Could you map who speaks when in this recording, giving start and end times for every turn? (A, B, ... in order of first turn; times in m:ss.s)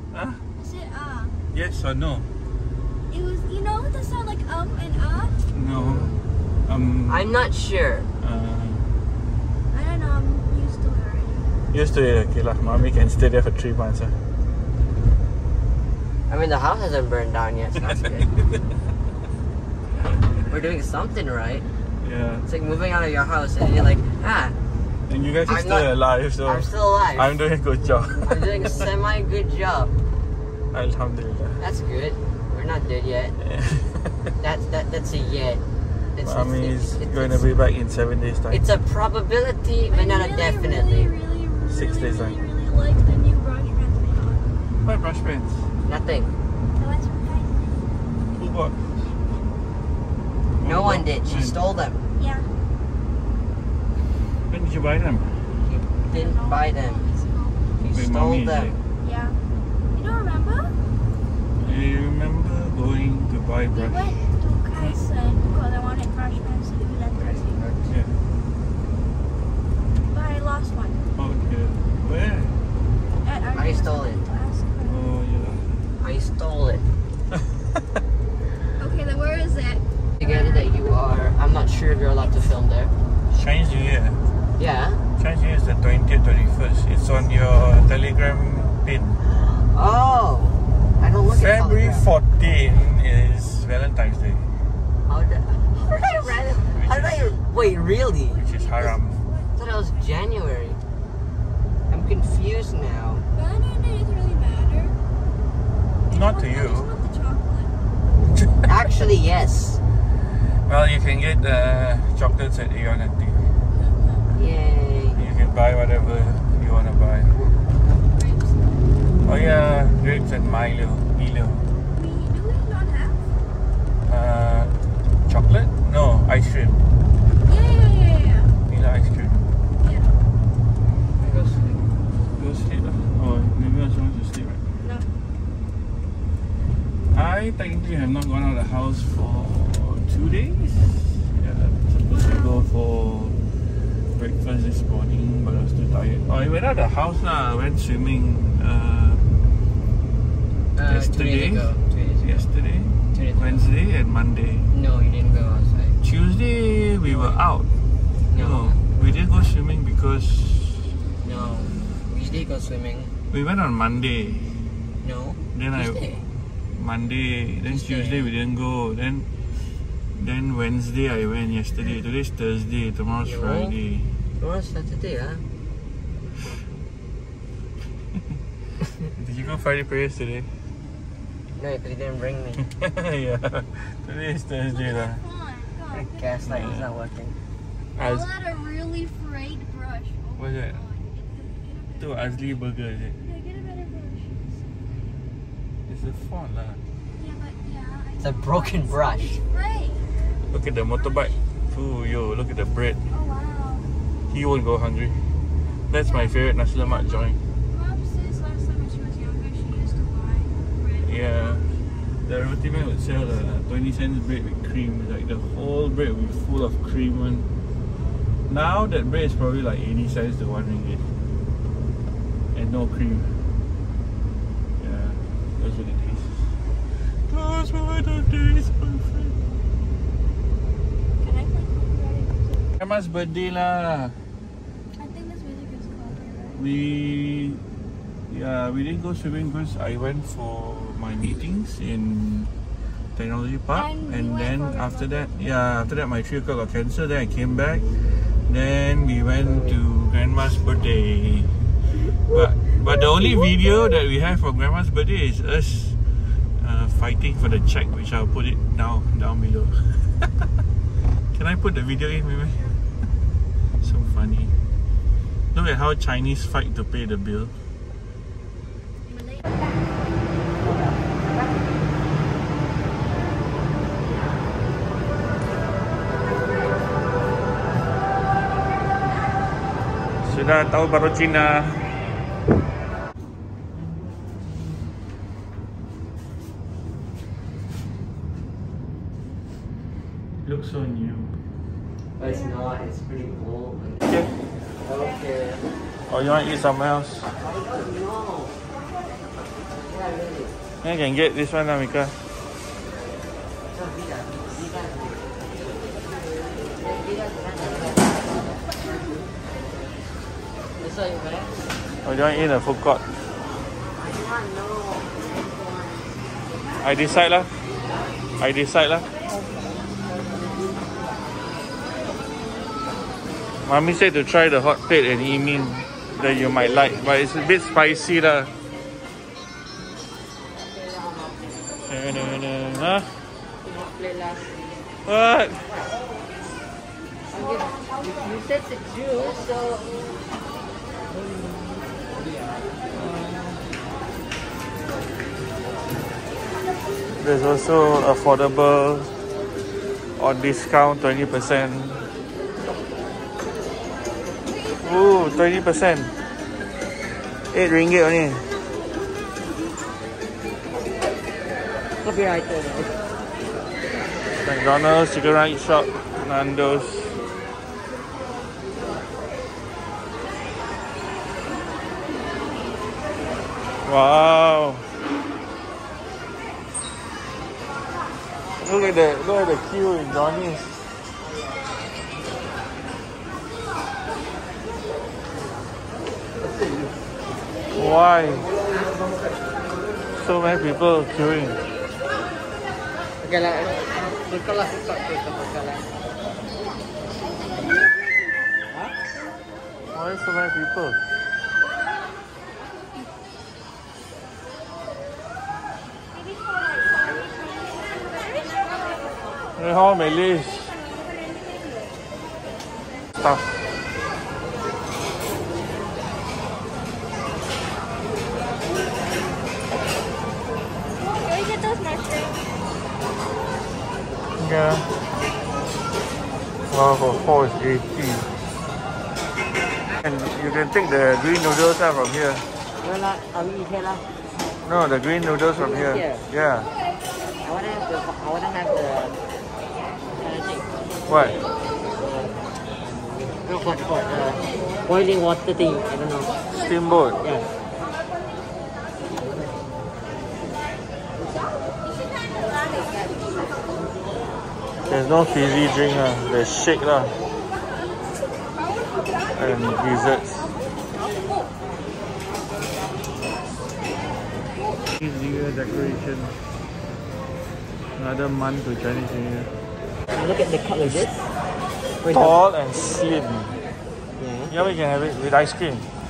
0:00.1-0:00.4 A
0:00.6-0:01.4 B
0:01.5-0:02.3 A
0:03.1-0:05.4 B
0:05.5-0:06.2 A
0:05.7-0:06.2 C
0:06.7-0:07.4 A
0:07.1-0:08.1 C
0:08.2-0:08.9 A
0:09.7-0:11.5 B
0:11.7-0:14.2 A
0:16.3-0:18.4 C
0:20.5-0:21.7 C
0:22.0-0:22.5 A
0:22.5-0:24.6 C
0:25.1-0:28.8 A
0:25.5-0:27.4 C
0:28.2-0:29.9 C
0:30.7-0:31.7 A
0:31.6-0:33.4 C
0:33.5-0:34.0 A
0:34.4-0:35.6 C
0:36.2-0:37.5 C
0:36.2-0:38.6 A
0:38.5-0:41.1 C
0:39.8-0:44.5 B
0:41.7-0:42.4 A
0:44.8-0:45.7 A
0:45.8-0:46.4 C
0:46.8-0:47.9 B
0:48.3-0:48.8 A
0:50.6-0:51.6 A
0:50.6-0:52.0 C
0:52.2-0:52.5 B
0:54.5-0:55.3 A
0:55.6-0:57.0 C
0:56.0-0:57.6 B
0:57.8-0:58.8 C
0:57.9-0:58.8 A
0:59.0-0:59.4 B
0:59.9-1:00.7 B
1:01.6-1:04.1 A
1:03.7-1:07.6 B
1:07.2-1:07.9 C
1:07.9-1:08.1 A
1:10.1-1:11.0 B
1:11.2-1:12.6 A
1:13.2-1:15.0 B
1:13.5-1:14.2 C
1:14.8-1:15.8 A
1:16.0-1:16.8 C
1:18.8-1:19.8 B
1:20.2-1:22.9 C
1:23.3-1:24.2 A
1:24.6-1:25.0 C
1:25.2-1:29.2 A
1:29.4-1:32.1 C
1:31.3-1:34.5 A
1:35.1-1:38.4 C
1:35.7-1:36.8 B
1:36.5-1:37.3 A
1:37.4-1:40.1 B
1:38.4-1:39.2 A
1:39.6-1:40.8 C
1:41.9-1:43.3 C
1:43.4-1:45.0 B
1:46.1-1:47.8 B
1:46.1-1:46.9 A
1:48.6-1:49.8 C
1:50.6-1:53.5 A
1:53.7-1:54.3 B
1:54.3-1:55.2 C
1:55.2-1:57.4 A
1:57.3-1:57.6 C
1:58.1-1:58.8 B
1:59.2-2:01.7 A
2:01.9-2:03.2 B
2:04.0-2:06.8 A
2:07.4-2:08.6 B
2:08.7-2:09.5 A
2:09.8-2:10.2 B
2:11.2-2:11.9 C
2:12.4-2:14.6 A
2:14.8-2:15.1 B
2:17.1-2:23.4 A
2:22.1-2:22.7 B
2:24.2-2:29.2 A
2:30.8-2:32.4 C
2:30.9-2:34.7 A
2:33.1-2:33.7 C
2:34.7-2:36.0 C
2:36.0-2:37.7 A
2:37.0-2:37.4 C
2:38.3-2:38.8 C
2:38.3-2:40.9 A
2:41.2-2:43.1 C
2:43.3-2:44.6 A
2:45.0-2:46.2 C
2:45.5-2:46.2 A
2:46.8-2:49.3 A
2:47.7-2:48.4 C
2:50.2-2:54.1 A
2:53.2-2:53.8 C
2:54.4-2:55.4 C
2:59.1-3:00.5 A
3:01.6-3:02.6 C
3:02.7-3:05.2 A
3:04.7-3:06.8 B
3:05.9-3:07.4 C
3:06.5-3:06.9 A
3:08.0-3:12.6 B
3:08.0-3:08.3 A
3:10.4-3:10.8 A
3:12.0-3:13.2 A
3:13.2-3:15.3 B
3:15.9-3:16.8 A
3:17.2-3:20.4 B
3:18.2-3:19.4 C
3:20.5-3:23.0 A
3:21.0-3:21.4 B
3:23.1-3:23.9 B
3:24.3-3:25.3 A
3:25.6-3:32.1 B
3:25.9-3:27.4 A
3:31.0-3:31.7 A
3:32.2-3:37.5 A
3:38.5-3:41.0 A
3:42.5-3:43.4 A
3:44.8-3:46.5 A
3:47.1-3:49.6 A
3:51.2-3:52.7 B
3:52.8-3:54.2 A
3:54.9-3:56.6 B
3:56.6-3:57.6 A
3:58.3-4:02.5 A
4:03.2-4:11.6 A
4:03.7-4:05.3 B
4:09.4-4:09.8 C
4:12.3-4:20.5 A
4:12.6-4:14.0 B
4:21.3-4:22.8 A
4:23.8-4:24.5 A
4:25.5-4:27.5 A
4:29.1-4:29.6 B
4:30.6-4:31.6 C
4:36.1-4:37.1 B
4:38.2-4:39.6 B
4:40.2-4:42.0 A
4:50.4-4:51.4 A
4:52.2-4:54.2 C
4:54.0-4:54.3 A
4:54.8-4:55.7 C
4:56.1-4:57.3 A
4:57.4-4:58.6 C
4:58.7-4:59.2 B
4:59.7-5:00.6 C
5:00.8-5:02.2 A
5:03.7-5:05.3 C
5:06.8-5:08.6 C
5:08.8-5:09.1 B
5:10.8-5:11.6 C
5:12.0-5:13.0 A
5:14.0-5:16.3 C
5:16.8-5:17.5 A
5:18.4-5:19.1 A
5:23.7-5:28.5 A
5:30.6-5:31.8 C
5:31.9-5:33.1 A
5:33.6-5:34.6 C
5:35.1-5:35.7 A
5:35.7-5:35.9 C
5:37.3-5:40.1 C
5:41.1-5:43.6 C
5:47.2-5:49.1 A
5:50.2-5:52.1 A
5:54.6-5:55.2 B
5:54.8-5:56.1 A
5:57.5-5:58.5 A
5:59.2-6:00.1 B
6:02.0-6:03.0 C
6:04.4-6:07.2 A
6:13.8-6:14.9 A
6:18.6-6:20.9 A
6:26.4-6:27.0 C
6:27.7-6:28.5 A
6:28.5-6:29.1 C
6:30.1-6:31.6 A
6:33.2-6:35.9 C
6:37.2-6:39.9 B
6:39.9-6:41.0 A
6:46.1-6:49.1 B
6:49.6-6:50.7 A
6:50.7-6:51.9 B
6:53.2-6:53.5 A
7:00.9-7:02.4 B
7:04.4-7:04.9 A
7:06.7-7:08.3 A
7:10.0-7:12.5 A
7:12.8-7:14.1 C
7:14.6-7:16.7 A
7:15.6-7:16.2 C
7:17.4-7:19.2 C
7:20.1-7:20.7 C
7:21.1-7:21.4 A
7:22.0-7:22.3 C
7:23.4-7:26.4 C
7:26.5-7:27.2 A
7:27.2-7:27.5 C
7:32.2-7:33.5 B
7:34.9-7:37.2 A
7:39.3-7:40.5 A
7:45.0-7:46.4 A
7:48.0-7:49.5 A
7:50.1-7:51.3 C
7:52.0-7:52.4 C
7:52.1-7:53.6 A
7:54.2-7:54.6 C
7:54.5-7:55.9 A